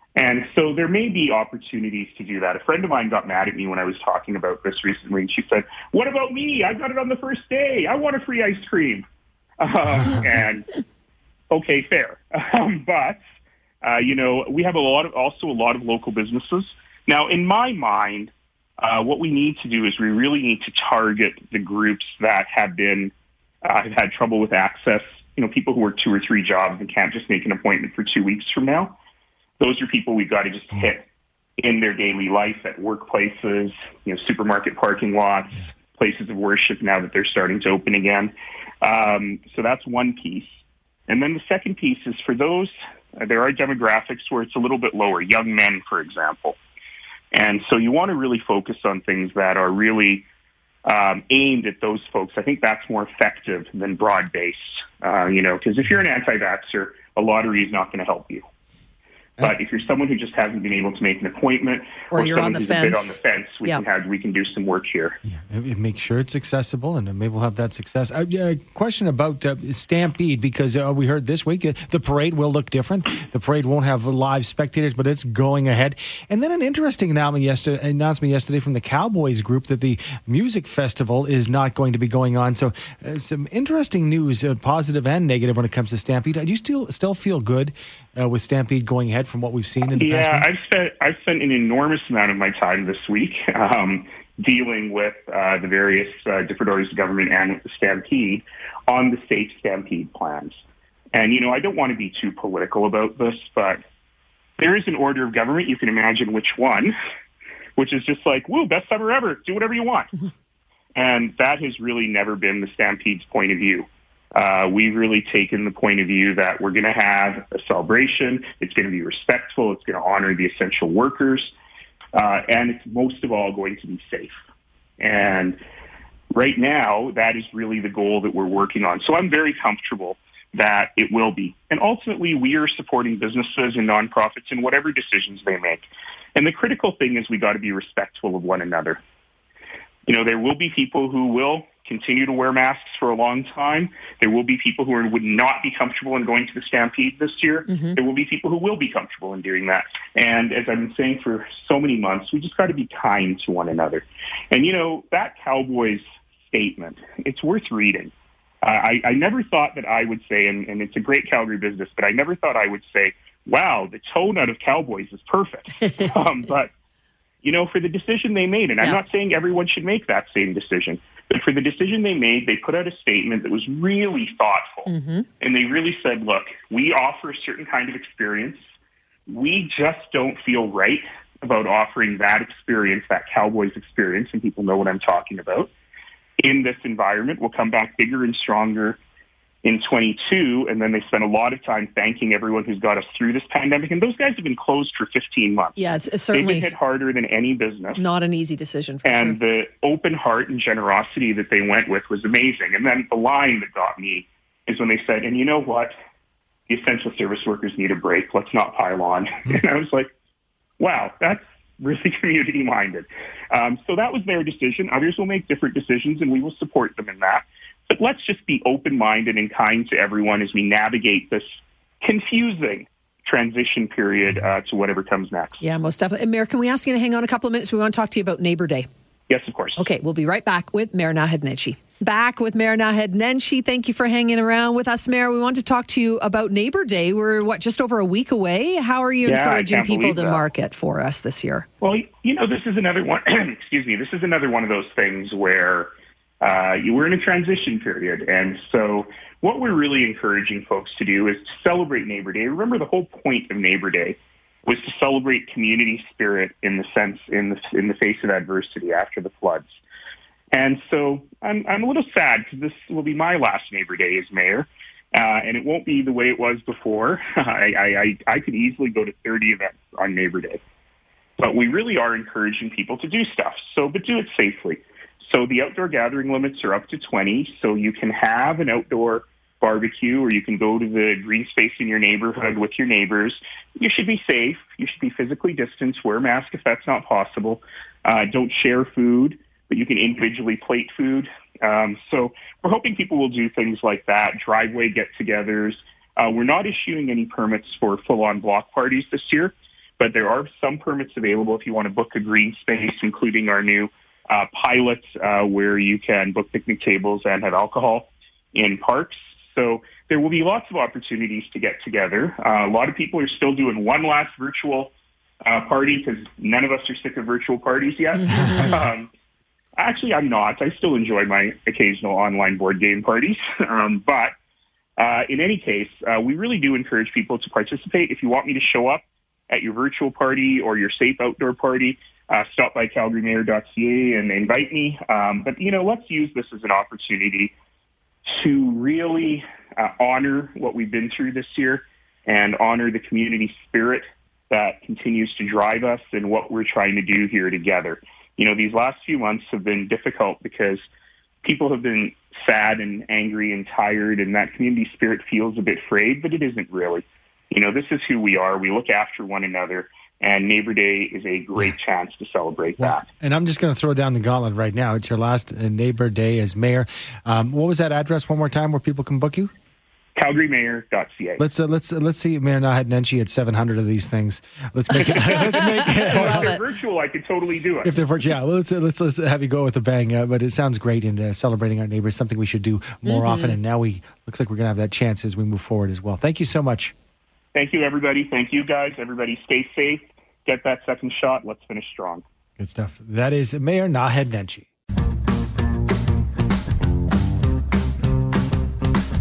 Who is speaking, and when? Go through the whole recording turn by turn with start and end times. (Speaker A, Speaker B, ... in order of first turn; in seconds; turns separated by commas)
Speaker A: 0.1-9.0, Speaker A: 9.6-10.7, Speaker A: 11.5-13.2, Speaker A: 13.8-29.0, Speaker A: 29.6-31.0, Speaker A: 31.6-46.6, Speaker A: 47.3-50.2, Speaker A: 50.9-58.4, Speaker A: 59.4-65.2, Speaker B: 62.1-63.8, Speaker C: 65.2-90.5, Speaker A: 89.9-100.6, Speaker A: 101.1-103.8, Speaker A: 104.6-106.9, Speaker A: 107.8-110.1, Speaker A: 111.0-121.5, Speaker A: 122.1-124.4, Speaker A: 125.0-125.6, Speaker A: 126.3-139.0, Speaker A: 140.1-158.1, Speaker B: 147.7-148.0, Speaker A: 158.6-166.7, Speaker A: 167.4-174.9, Speaker B: 174.9-175.2, Speaker A: 175.4-178.6, Speaker A: 179.3-185.7, Speaker A: 186.4-189.0, Speaker A: 189.6-195.8, Speaker B: 195.8-196.7, Speaker A: 196.3-198.0, Speaker B: 198.0-199.4, Speaker A: 199.0-205.9, Speaker A: 206.7-210.1, Speaker A: 210.8-225.6, Speaker B: 225.6-228.9, Speaker A: 229.3-229.8, Speaker B: 229.8-241.6, Speaker A: 239.2-240.4, Speaker A: 241.8-259.8, Speaker A: 260.5-270.6, Speaker A: 271.4-314.9, Speaker A: 315.4-319.1, Speaker B: 318.3-318.7, Speaker C: 318.4-318.7, Speaker A: 319.8-324.3, Speaker A: 325.0-337.5, Speaker A: 338.2-350.9, Speaker A: 351.4-363.0, Speaker C: 362.8-369.5, Speaker A: 370.1-371.4, Speaker C: 371.4-376.5, Speaker B: 375.0-376.6, Speaker A: 376.0-377.9, Speaker C: 377.8-386.9, Speaker B: 383.1-383.6, Speaker A: 387.5-392.2, Speaker C: 392.6-394.7